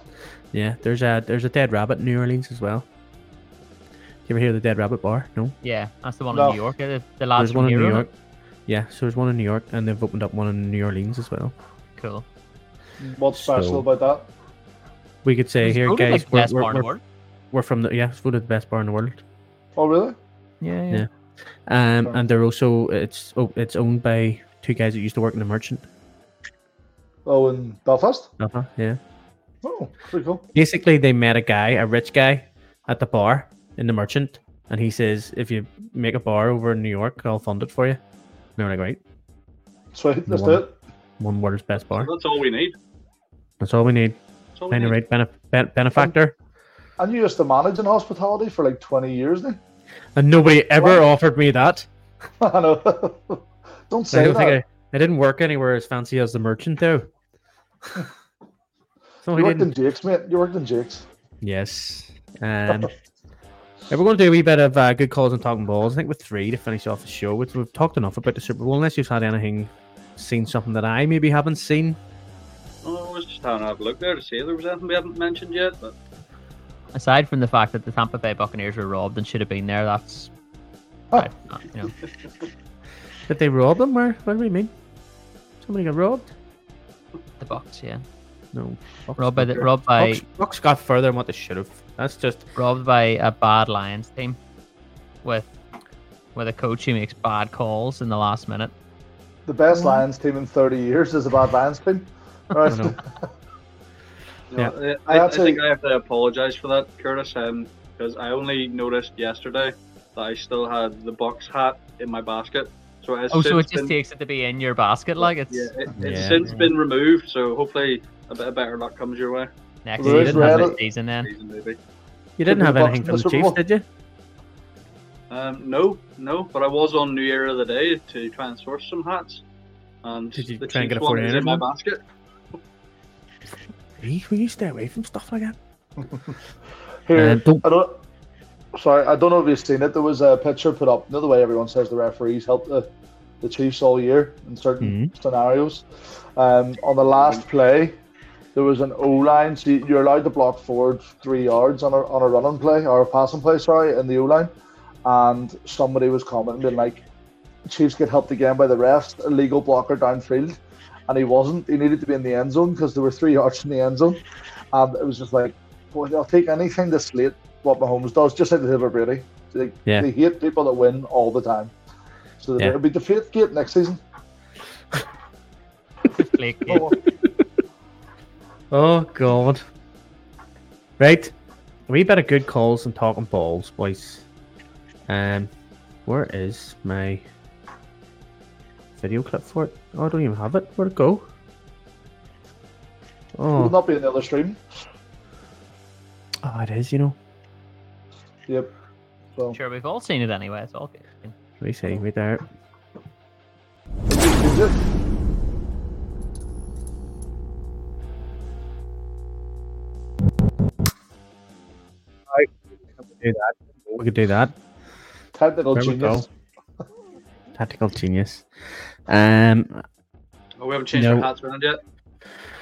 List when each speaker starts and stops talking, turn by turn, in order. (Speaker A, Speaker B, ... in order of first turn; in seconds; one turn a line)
Speaker A: 0.5-2.9
Speaker A: 4.2-5.5
Speaker B: 5.6-8.1
Speaker C: 6.3-6.6
Speaker A: 7.3-8.1
Speaker A: 8.7-11.5
Speaker B: 12.0-12.2
Speaker C: 13.0-14.3
Speaker A: 13.3-13.8
Speaker A: 15.2-16.9
Speaker B: 15.6-17.0
Speaker A: 17.5-19.2
Speaker C: 19.8-20.1
Speaker B: 20.6-21.1
Speaker A: 21.6-25.9
Speaker C: 27.2-28.3
Speaker A: 28.4-29.0
Speaker C: 29.6-30.4
Speaker A: 30.5-38.0
Speaker A: 38.6-39.0
Speaker C: 39.9-40.7
Speaker A: 40.3-40.6
Speaker A: 41.2-42.1
Speaker D: 41.9-42.7
Speaker A: 43.6-44.2
Speaker D: 44.5-45.0
Speaker A: 44.7-46.3
Speaker C: 47.0-49.6
Speaker A: 50.1-51.9
Speaker C: 50.8-51.0
Speaker C: 52.4-54.6
Speaker A: 54.1-57.1
Speaker A: 59.2-59.7
Speaker C: 59.3-61.0
Speaker A: 61.4-62.9
Speaker A: 63.9-72.0
Speaker D: 72.8-75.9
Speaker B: 76.9-80.3
Speaker B: 81.1-81.9
Speaker A: 83.3-84.7
Speaker A: 85.6-86.3
Speaker B: 87.4-88.0
Speaker A: 88.5-92.4
Speaker B: 89.2-90.2
Speaker B: 92.5-94.4
Speaker B: 96.3-98.7
Speaker C: 99.5-103.1
Speaker A: 102.6-103.0
Speaker D: 104.5-113.9
Speaker C: 105.1-105.6
Speaker B: 113.3-115.7
Speaker D: 115.5-119.5
Speaker A: 116.0-116.5
Speaker B: 116.4-116.7
Speaker B: 119.8-121.3
Speaker C: 120.0-120.8
Speaker A: 120.0-120.6
Speaker D: 121.2-121.8
Speaker A: 122.4-123.8
Speaker C: 122.5-123.6
Speaker D: 125.3-129.4
Speaker D: 130.0-132.0
Speaker A: 130.3-131.6
Speaker A: 134.0-135.6
Speaker C: 137.1-138.0
Speaker A: 137.1-137.6
Speaker C: 138.7-142.9
Speaker C: 143.4-148.0
Speaker A: 144.8-145.1
Speaker C: 148.5-154.5
Speaker C: 155.0-157.0
Speaker C: 157.7-171.7
Speaker C: 172.4-174.0
Speaker B: 176.1-176.9
Speaker C: 176.7-176.9
Speaker A: 178.7-179.6
Speaker A: 181.0-181.3
Speaker A: 181.9-184.2
Speaker A: 185.1-185.5
Speaker A: 186.1-187.2
Speaker A: 189.0-191.2
Speaker A: 193.3-193.7
Speaker C: 193.5-194.6
Speaker A: 196.4-197.2
Speaker B: 199.5-201.3
Speaker A: 201.6-202.4
Speaker C: 204.1-204.8
Speaker A: 213.1-214.5
Speaker C: 215.3-216.3
Speaker A: 215.7-216.2
Speaker A: 217.5-218.5
Speaker A: 219.1-219.8
Speaker D: 220.6-221.8
Speaker A: 220.9-221.3